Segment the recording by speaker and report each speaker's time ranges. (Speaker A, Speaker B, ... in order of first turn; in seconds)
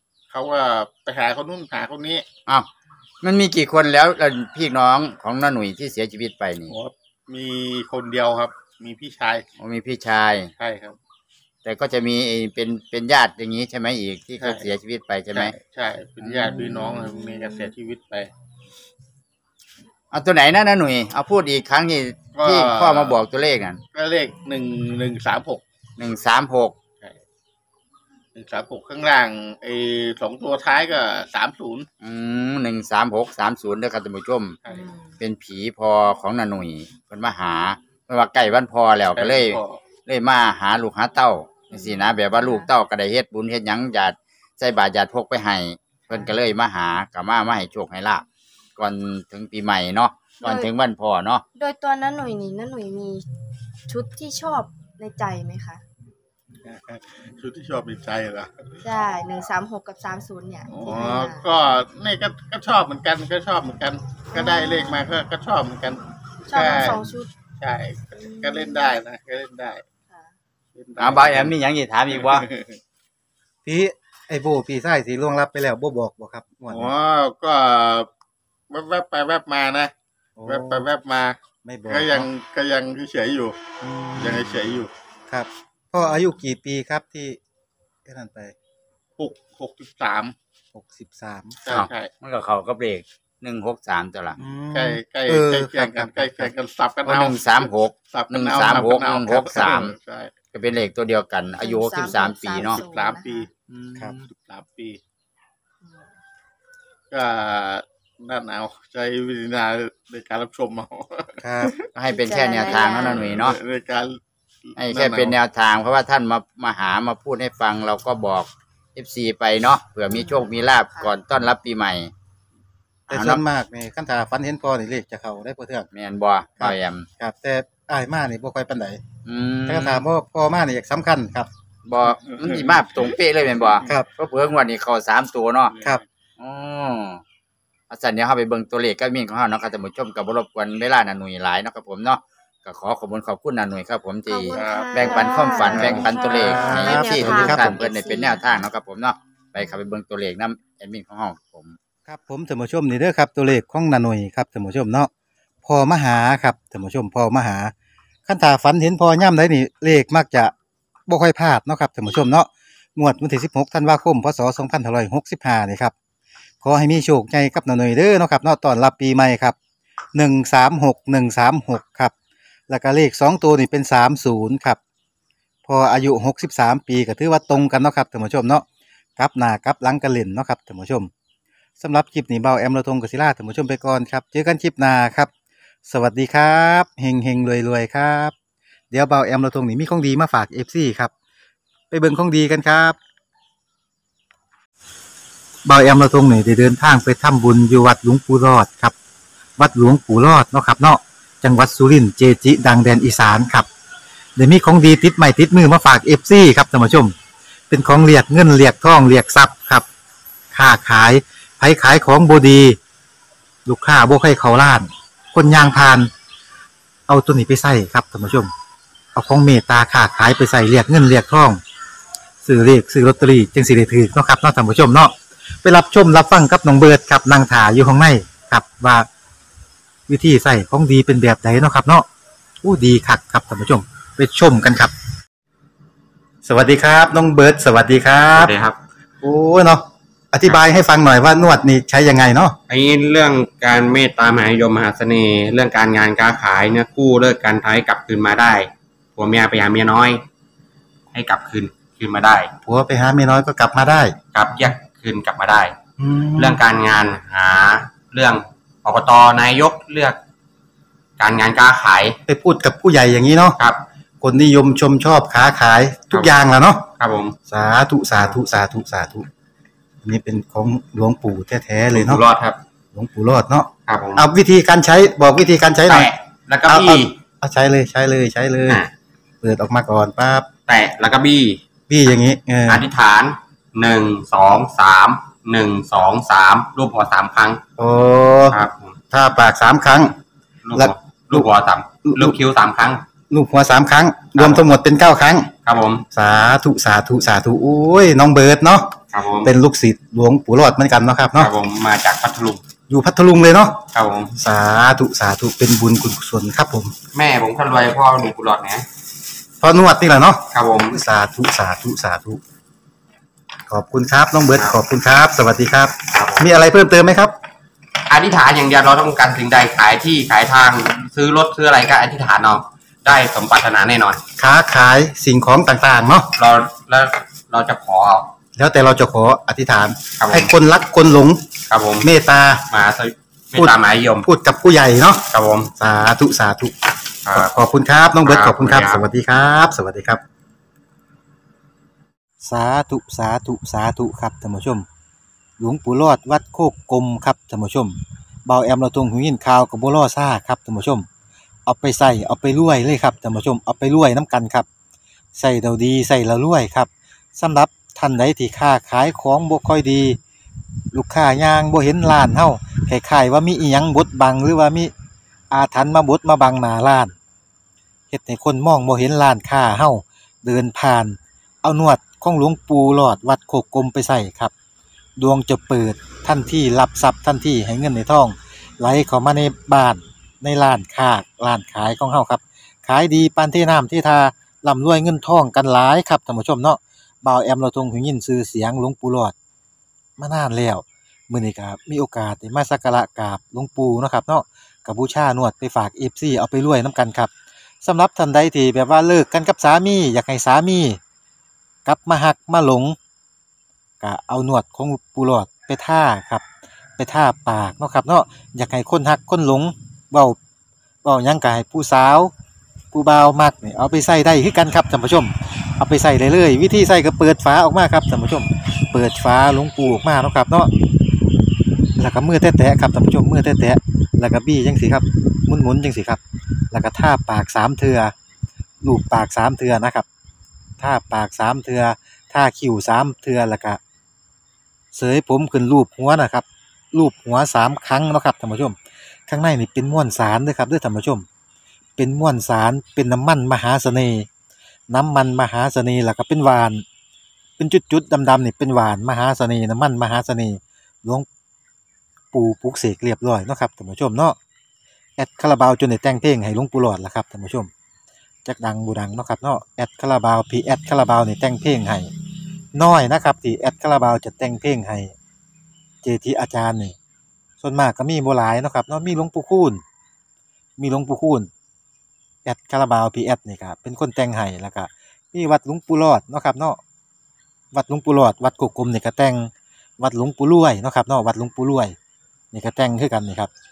Speaker A: 0.3-2.2, 6.7-9.4, 10.6-11.0, 14.4-14.7, 15.3-18.3, 22.3-23.2, 23.9-25.6, 28.4-31.9, 34.6-34.9, 39.1-39.8, 56.6-58.6, 60.7-69.8, 70.8-71.5, 72.1-72.8, 76.7-78.1, 78.7-79.9, 80.5-83.5, 84.2-84.9, 89.2-90.3, 91.6-92.1, 94.7-100.3, 102.8-103.5, 104.3-105.0, 107.1-111.9, 112.6-114.2, 114.7-115.4, 132.2-132.7, 135.6-136.0, 144.5-146.2
Speaker B: 3.2-6.7, 9.6-10.5, 11.6-15.5, 16.2-17.2, 20.1-23.8, 26.0-26.8, 32.0-34.6, 35.2-48.2, 48.8-51.4, 71.0-72.5, 91.7-94.4, 97.0-99.9, 100.5-102.8, 103.7-104.3, 112.0-113.6, 114.8-122.1, 123.1-123.4, 125.9-127.1, 129.2-130.0, 131.8-135.8, 136.4-137.2, 137.9-151.8
Speaker C: 34.7-35.2, 41.7-42.7, 50.4-50.7, 51.5-53.2, 53.9-55.8, 58.8-61.5, 64.3-65.0, 66.5-67.3, 68.2-69.0, 101.6-103.5, 105.8-106.1, 112.0-113.3, 120.1-121.1, 144.3-148.6
Speaker D: 73.6-76.9, 80.4-80.9, 81.6-82.3, 83.8-87.4, 88.0-88.5, 90.7-91.6, 94.4-96.5, 111.4-111.7, 123.1-125.9, 126.6-129.0, 129.7-131.5, 145.5-147.8, 152.1-155.1, 155.6-157.7, 158.2-160.5, 161.1-165.9, 166.6-169.6, 170.1-172.1, 172.7-174.8, 175.6-178.6, 179.2-181.1, 181.8-185.3, 185.8-188.3, 188.9-191.1, 191.9-193.0, 195.7-198.9, 199.6-203.7, 204.4-207.1, 207.7-209.8, 210.5-212.8, 213.7-216.1, 217.1-218.5, 219.1-221.6, 222.4-229.1, 230.1-232.1, 232.6-234.9, 236.4-238.5, 239.2-242.5, 252.6-254.1, 256.0-256.6, 262.3-263.6, 264.2-266.9, 267.5-269.2, 270.0-272.2, 272.9-276.1, 276.7-278.8, 279.4-280.5, 281.9-282.8, 287.8-288.6, 289.1-290.1, 290.7-291.5, 292.1-292.4, 293.3-295.5, 296.1-298.9, 299.4-301.5, 302.9-303.8, 304.4-306.9, 309.6-312.4, 313.7-317.3, 324.4-326.3, 328.6-331.4, 332.0-332.7, 333.5-335.2, 335.8-336.7, 337.3-340.2, 342.4-344.9, 345.6-351.1, 351.6-354.7, 355.4-360.2, 360.9-364.9, 365.5-367.1, 368.1-374.5, 375.2-389.3, 390.2-397.3, 397.8-401.0, 401.9-403.0, 404.0-406.4, 407.0-410.4, 411.0-412.3, 412.9-420.7, 422.0-426.2, 426.7-428.1, 428.8-430.0, 430.8-433.8, 434.9-438.8, 439.3-441.2, 442.0-444.3, 444.9-446.8, 447.6-451.2, 452.3-454.4, 455.2-457.7, 458.4-462.1, 462.7-465.1, 466.0-466.9, 467.6-469.8, 470.8-471.5, 472.4-476.8, 477.7-481.9, 482.5-483.5
Speaker E: 238.3-238.8, 242.7-250.2, 251.1-252.5, 254.3-255.8, 256.3-260.2, 261.2-262.2, 267.0-267.3, 271.9-272.6, 273.9-274.2, 275.9-277.1, 278.7-278.9, 280.7-281.6, 282.7-287.6, 288.5-288.9, 290.6-293.0, 294.3-294.7, 295.6-296.0, 299.1-299.5, 301.4-302.6, 303.9-304.3, 307.1-308.9, 310.5-311.0, 316.1-316.5, 318.1-324.2, 326.4-328.3, 330.2-330.5, 331.7-332.1, 332.7-334.3, 335.3-335.7, 337.2-337.5, 338.2-339.0